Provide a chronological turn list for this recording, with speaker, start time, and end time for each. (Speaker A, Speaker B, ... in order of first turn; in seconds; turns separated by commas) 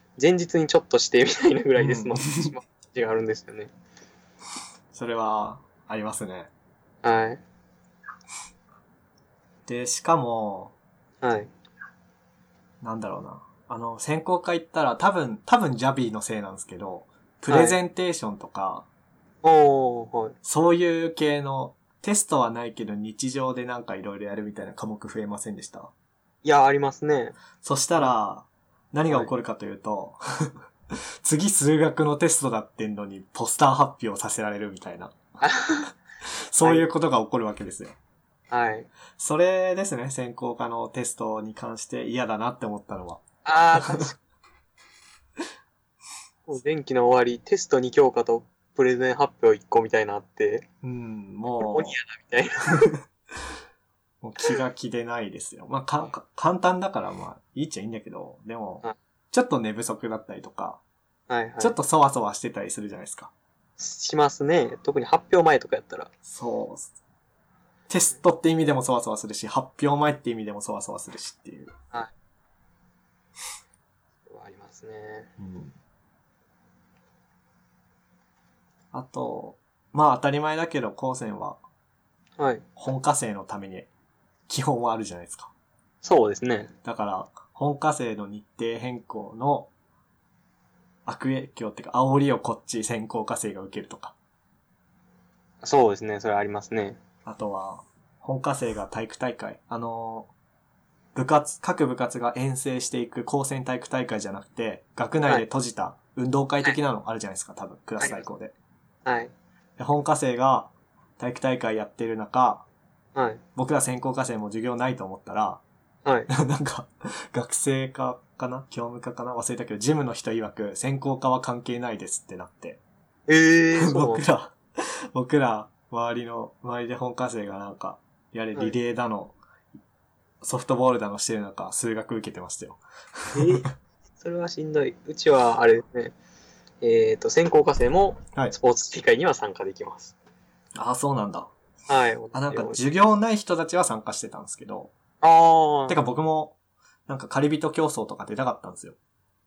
Speaker A: 0.2-3.7, Speaker B: 1.8-2.5, Speaker B: 4.9-6.5, Speaker A: 7.0-7.4, Speaker B: 9.7-10.8, Speaker A: 11.2-11.5, Speaker B: 12.8-18.9, Speaker A: 17.5-17.8, Speaker A: 19.4-20.4, Speaker B: 20.4-25.9, Speaker A: 26.4-27.4, Speaker B: 27.6-30.5, Speaker B: 31.2-35.2, Speaker A: 35.4-35.9, Speaker B: 36.5-38.0, Speaker A: 38.5-38.9, Speaker B: 39.2-43.2, Speaker A: 43.5-44.2, Speaker B: 43.8-44.1, Speaker A: 46.5-50.7, Speaker B: 50.8-52.0, Speaker A: 51.6-52.9, Speaker B: 54.2-60.8, Speaker A: 61.3-61.8, Speaker B: 61.6-63.3, Speaker A: 63.8-66.1, Speaker B: 66.2-66.9, Speaker B: 67.9-71.7, Speaker A: 74.3-75.3, Speaker B: 75.4-75.8, Speaker B: 78.9-81.6, Speaker A: 82.4-82.7, Speaker B: 82.8-83.9, Speaker B: 84.5-85.5, Speaker A: 86.0-86.7, Speaker B: 86.8-89.7, Speaker B: 91.1-94.2, Speaker A: 95.6-97.0, Speaker B: 97.2-100.3, Speaker B: 101.2-108.5, Speaker A: 108.0-108.3, Speaker A: 109.0-109.3, Speaker B: 109.8-112.7, Speaker A: 113.2-113.4, Speaker B: 113.6-115.6, Speaker B: 116.3-122.8, Speaker A: 123.3-124.2, Speaker B: 123.8-129.4, Speaker B: 130.4-133.7, Speaker A: 133.3-133.7, Speaker A: 134.2-136.2, Speaker A: 136.8-140.1, Speaker B: 140.8-141.5, Speaker A: 141.9-142.8, Speaker B: 142.3-144.9, Speaker A: 145.2-146.0, Speaker B: 145.9-146.6, Speaker B: 147.1-149.0